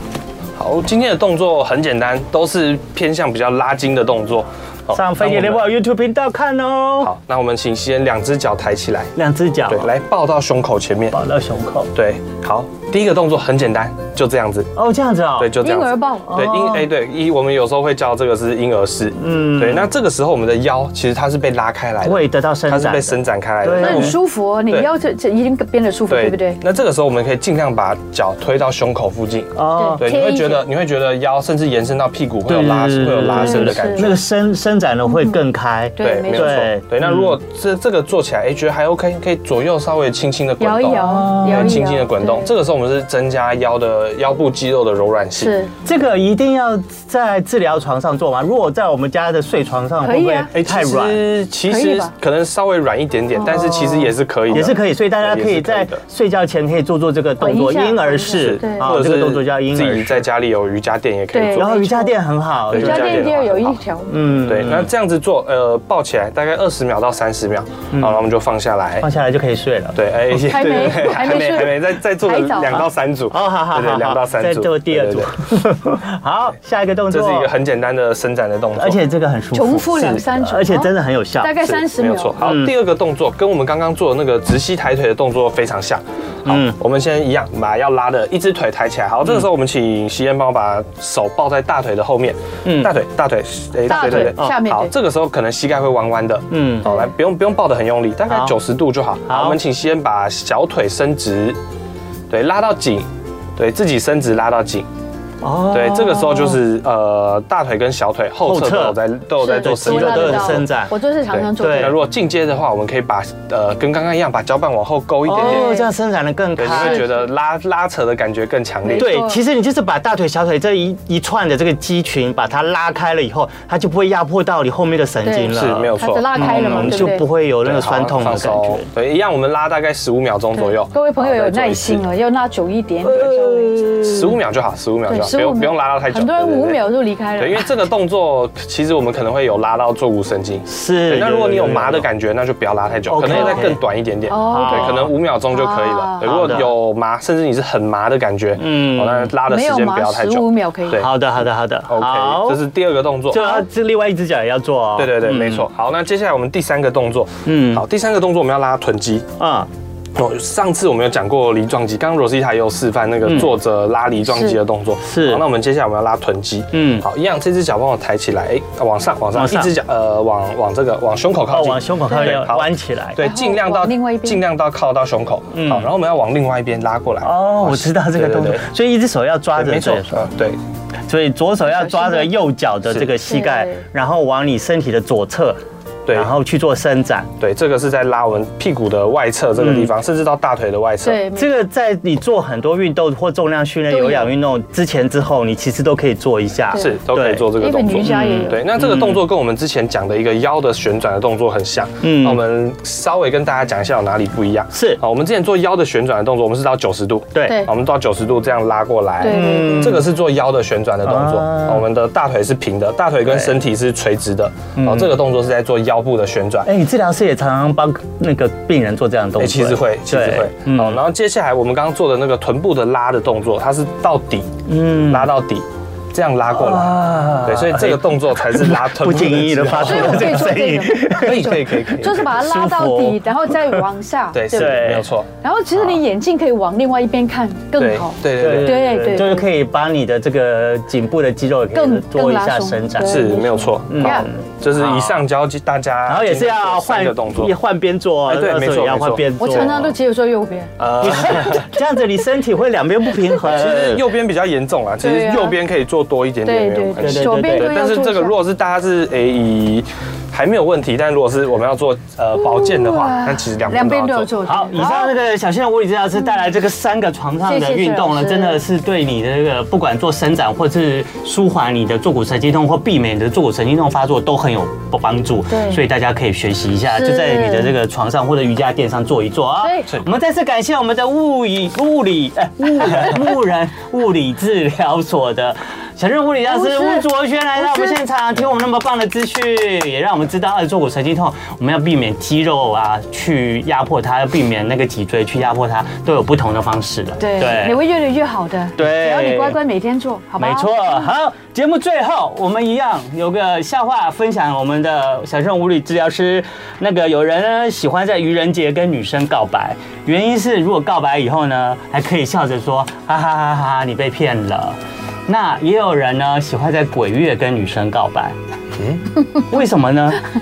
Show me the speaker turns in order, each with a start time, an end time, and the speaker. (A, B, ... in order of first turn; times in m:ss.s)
0:00.6-0:05.6 A
0:04.9-0:07.1 B
0:07.0-0:09.1 A
0:09.2-0:09.9 B
0:09.7-0:11.2 A
0:11.1-0:11.9 B
0:11.9-0:14.7 A
0:14.7-0:15.6 B
0:15.4-0:24.2 A
0:15.6-0:16.4 C
0:16.3-0:16.9 B
0:19.2-0:19.9 B
0:22.0-0:24.2 B
0:23.8-0:26.6 C
0:26.1-0:34.2 A
0:29.6-0:30.0 B
0:29.8-0:30.6 C
0:32.5-0:37.3 B
0:33.3-0:34.1 C
0:36.0-0:36.7 C
0:36.0-0:45.5 A
0:40.6-0:42.5 C
0:40.9-0:41.8 B
0:45.4-0:45.7 C
0:45.8-0:51.2 B
0:50.0-0:50.5 C
0:50.6-0:56.0 A
0:51.6-0:52.1 C
0:53.4-0:53.8 C
0:53.6-1:00.2 B
0:57.4-0:58.9 C
0:58.4-1:01.7 A
1:01.3-1:02.2 C
1:01.5-1:03.3 B
1:02.7-1:04.2 C
1:02.7-1:03.8 A
1:04.1-1:04.9 B
1:04.4-1:09.1 A
1:07.9-1:08.2 B
1:09.0-1:10.0 B
1:09.9-1:15.4 A
1:10.3-1:12.9 C
1:13.3-1:17.5 B
1:17.1-1:19.0 A
1:18.8-1:21.7 B
1:19.5-1:22.4 C
1:21.6-1:41.6 A
1:22.4-1:22.7 B
1:26.4-1:26.8 B
1:32.6-1:32.9 B
1:33.9-1:34.6 B
1:33.9-1:34.9 C
1:36.5-1:36.9 B
1:36.8-1:37.1 C
1:38.3-1:38.6 B
1:39.3-1:39.6 B
1:42.3-1:44.8 A
1:45.4-1:46.6 B
1:45.7-1:50.7 A
1:48.4-1:50.9 B
1:49.4-1:52.0 C
1:51.3-1:55.7 A
1:51.5-1:51.9 B
1:55.2-1:57.0 B
1:55.3-1:55.9 C
1:56.6-1:59.1 A
1:56.7-1:57.2 C
1:58.8-1:59.4 C
1:59.0-2:08.8 B
2:05.2-2:07.2 C
2:05.5-2:12.0 A
2:10.6-2:13.9 C
2:13.0-2:14.3 B
2:14.0-2:16.8 A
2:15.1-2:17.7 C
2:17.4-2:31.1 A
2:20.7-2:22.1 B
2:23.1-2:23.8 B
2:23.3-2:23.6 C
2:24.3-2:26.6 C
2:24.5-2:25.1 B
2:26.2-2:26.7 B
2:28.6-2:29.3 B
2:29.4-2:31.1 C
2:30.9-2:32.6 B
2:31.9-2:33.6 A
2:33.3-2:35.7 B
2:33.3-2:33.6 C
2:35.0-2:39.3 A
2:37.4-2:37.8 B
2:39.4-2:39.7 B
2:40.1-2:58.7 A
2:43.2-2:43.5 B
2:44.3-2:44.6 C
2:45.0-2:45.4 B
2:46.7-2:47.0 B
2:49.3-2:49.7 B
2:51.5-2:53.2 B
2:52.1-2:52.4 C
2:53.2-2:54.4 C
2:55.5-2:55.9 B
2:57.2-3:00.3 B
2:59.6-3:00.6 A
3:01.1-3:05.6 B
3:01.7-3:02.3 C
3:03.1-3:03.8 C
3:06.0-3:06.4 A
3:06.1-3:07.3 B
3:07.4-3:11.2 A
3:09.6-3:09.9 B
3:11.0-3:11.6 C
3:11.3-3:19.2 B
3:13.9-3:14.3 C
3:16.7-3:36.7 A
3:17.5-3:18.6 C
3:22.0-3:22.4 B
3:24.7-3:25.0 B
3:27.3-3:27.6 B
3:27.4-3:27.7 C
3:29.2-3:30.0 C
3:29.2-3:30.1 B
3:31.0-3:31.9 B
3:33.2-3:33.6 B
3:34.8-3:35.2 B
3:36.6-3:41.0 B
3:39.4-3:52.3 A
3:44.7-3:45.3 B
3:46.5-3:53.8 B
3:49.8-3:59.5 C
3:54.3-3:55.3 A
3:54.5-3:55.1 B
3:57.7-3:59.2 A
3:58.3-4:03.3 B
4:01.7-4:04.3 C
4:03.0-4:07.5 A
4:03.9-4:05.2 B
4:06.1-4:09.9 B
4:08.3-4:09.9 A
4:09.4-4:10.8 C
4:10.8-4:11.7 A
4:11.0-4:14.0 B
4:13.4-4:24.3 A
4:15.0-4:15.6 C
4:16.4-4:18.4 C
4:17.0-4:17.8 B
4:22.4-4:25.1 C
4:24.4-4:57.8 B
4:27.4-4:28.6 C
4:35.5-4:35.8 C
4:36.9-4:37.7 C
4:39.6-4:39.9 C
4:46.5-4:47.0 C
4:47.6-4:48.0 C
4:57.2-5:01.1 C
4:58.8-4:59.6 B
5:00.4-5:18.4 B
5:19.5-5:20.2 B